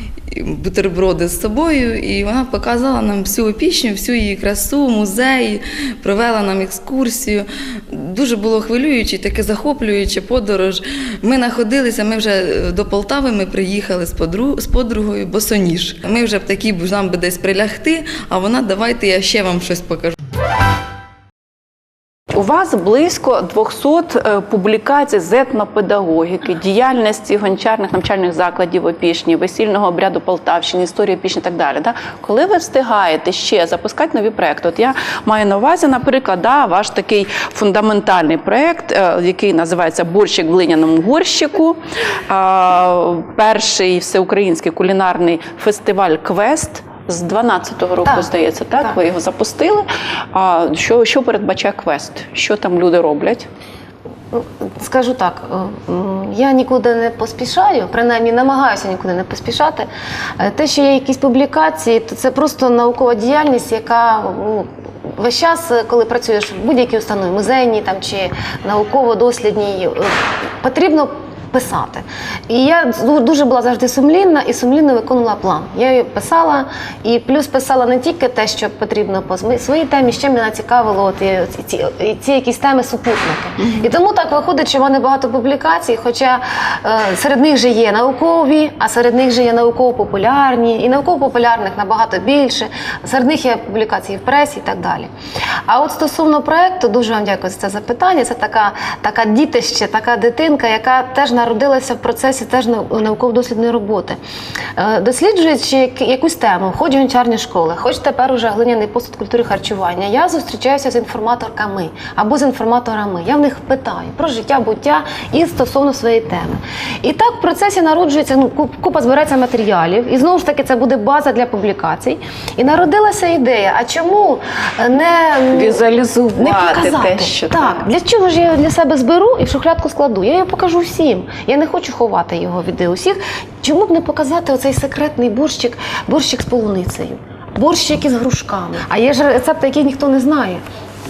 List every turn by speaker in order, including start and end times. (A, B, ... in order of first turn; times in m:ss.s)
0:00.3-0:20.1 A
0:22.3-0:53.5 B
0:54.3-1:35.1 C
1:23.6-1:23.9 B
1:35.7-1:44.2 C
1:44.8-2:05.8 C
2:05.5-2:07.9 B
2:06.4-2:20.6 C